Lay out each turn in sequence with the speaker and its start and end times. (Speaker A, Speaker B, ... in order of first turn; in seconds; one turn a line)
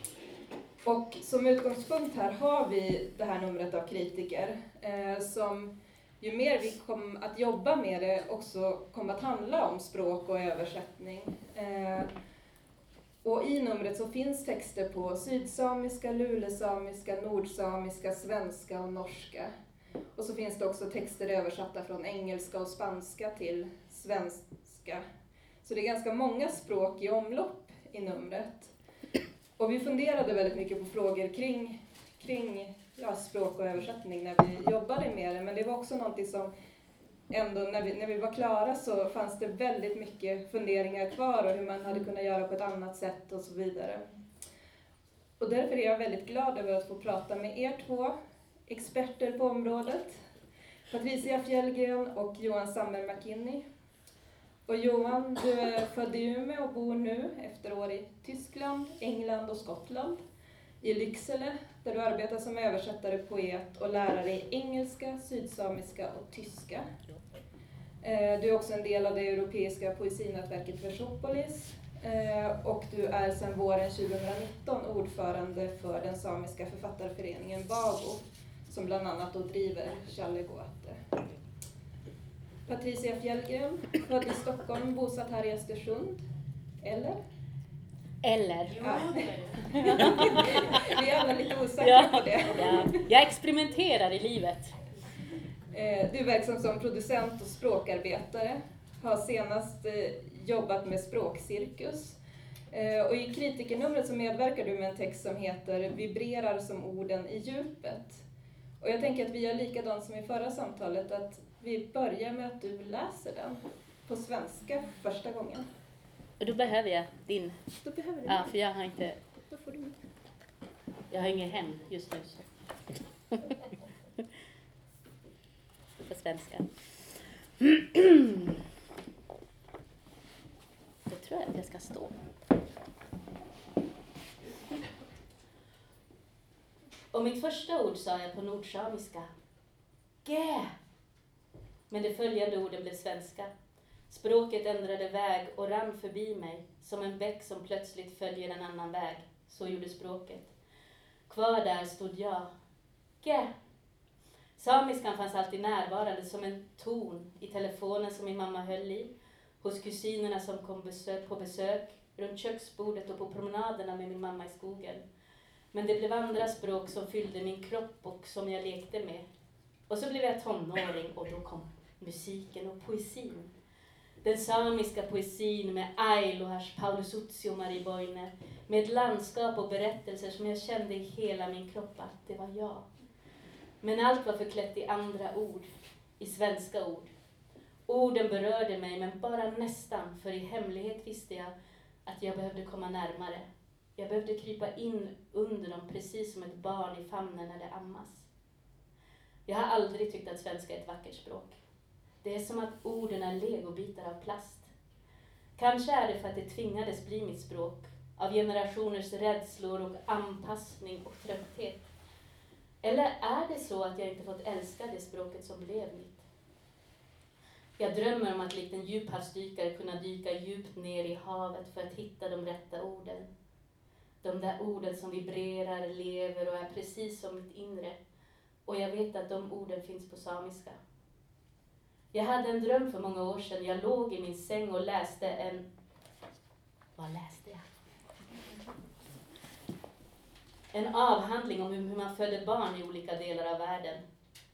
Speaker A: 0.8-12.1
Speaker A: 13.2-19.5
Speaker A: 20.2-25.0
Speaker A: 25.6-28.7
Speaker A: 29.6-36.5
Speaker A: 37.3-44.0
Speaker A: 45.4-48.1
Speaker A: 48.7-50.2
Speaker A: 50.9-53.6
Speaker A: 54.7-60.2
Speaker A: 60.8-66.9
Speaker A: 68.0-81.0
Speaker A: 82.7-86.2
Speaker A: 86.8-87.2
Speaker B: 88.2-89.3
Speaker A: 88.8-92.9
Speaker B: 89.8-91.0
Speaker B: 91.8-94.8
Speaker A: 95.7-102.2
Speaker A: 102.7-108.2
Speaker A: 108.8-115.7
Speaker B: 116.4-117.6
Speaker A: 117.8-118.5
Speaker B: 118.3-119.2
Speaker A: 119.5-120.0
Speaker B: 121.1-122.4
Speaker B: 123.3-123.6
Speaker B: 126.0-126.7
Speaker B: 127.6-128.6
Speaker B: 131.1-132.2
Speaker B: 137.1-139.3
Speaker B: 140.2-140.7
Speaker B: 141.9-143.5
Speaker B: 144.1-150.5
Speaker B: 151.3-152.5
Speaker B: 153.2-153.5
Speaker B: 154.6-165.0
Speaker B: 165.7-169.3
Speaker B: 169.9-173.5
Speaker B: 174.2-182.9
Speaker B: 183.8-187.1
Speaker B: 187.9-191.5
Speaker B: 192.1-193.4
Speaker B: 194.0-198.3
Speaker B: 199.5-201.6
Speaker B: 202.2-204.7
Speaker B: 205.6-211.9
Speaker B: 212.8-216.3
Speaker B: 217.8-223.3
Speaker B: 224.2-228.0
Speaker B: 228.7-230.8
Speaker B: 232.1-235.7
Speaker B: 237.0-237.7
Speaker B: 240.7-244.0